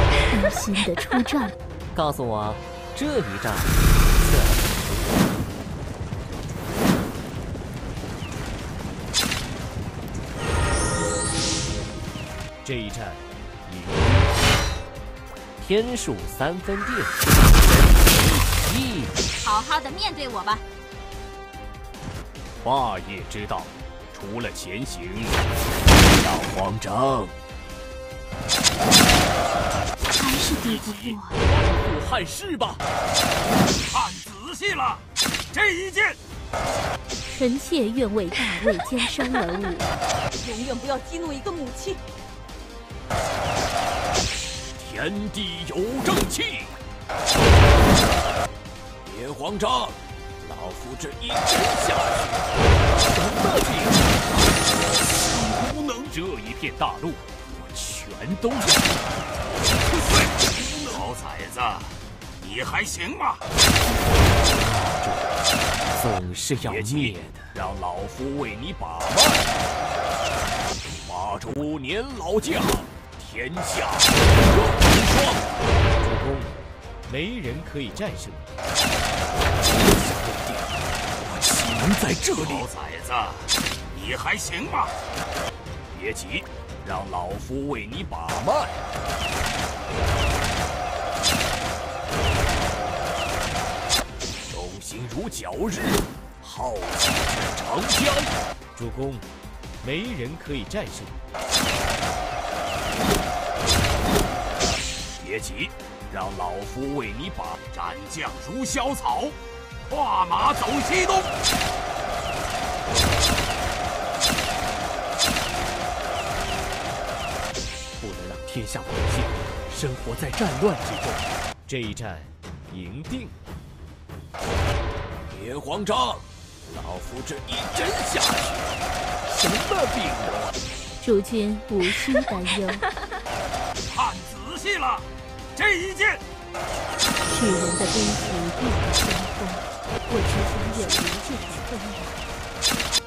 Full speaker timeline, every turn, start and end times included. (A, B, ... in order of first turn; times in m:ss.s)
0:00.3-0:01.6 A
0:02.0-0:02.4 B
0:02.9-0:05.2 B
0:12.6-0:14.2 B
0:15.6-0:17.2 B
0:18.1-0:19.1 B
0:19.4-0:20.6 C
0:22.6-0:25.4 D
0:26.0-0:27.4 D
0:30.2-0:31.4 A
0:31.4-0:32.8 D
0:33.8-0:36.2 E
0:37.3-0:39.9 A
0:40.4-0:42.0 C
0:44.8-0:46.7 D
0:49.0-0:54.4 D
0:55.3-0:59.0 D
0:59.9-1:03.4 E
1:04.4-1:05.4 B
1:06.0-1:07.4 B
1:06.6-1:09.6 D
1:11.0-1:15.5 D
1:16.0-1:16.5 B
1:17.1-1:18.5 B
1:19.7-1:20.7 D
1:21.2-1:22.7 D
1:22.3-1:25.0 E
1:25.9-1:28.8 D
1:34.5-1:38.3 D
1:38.7-1:39.3 B
1:39.8-1:41.2 B
1:45.2-1:47.6 D
1:47.7-1:49.4 E
1:49.9-1:51.3 E
1:58.0-1:58.4 B
2:01.7-2:03.4 B
2:05.3-2:10.6 D
2:11.0-2:12.9 A
2:13.9-2:16.2 E
2:17.3-2:22.2 A
2:20.7-2:21.1 D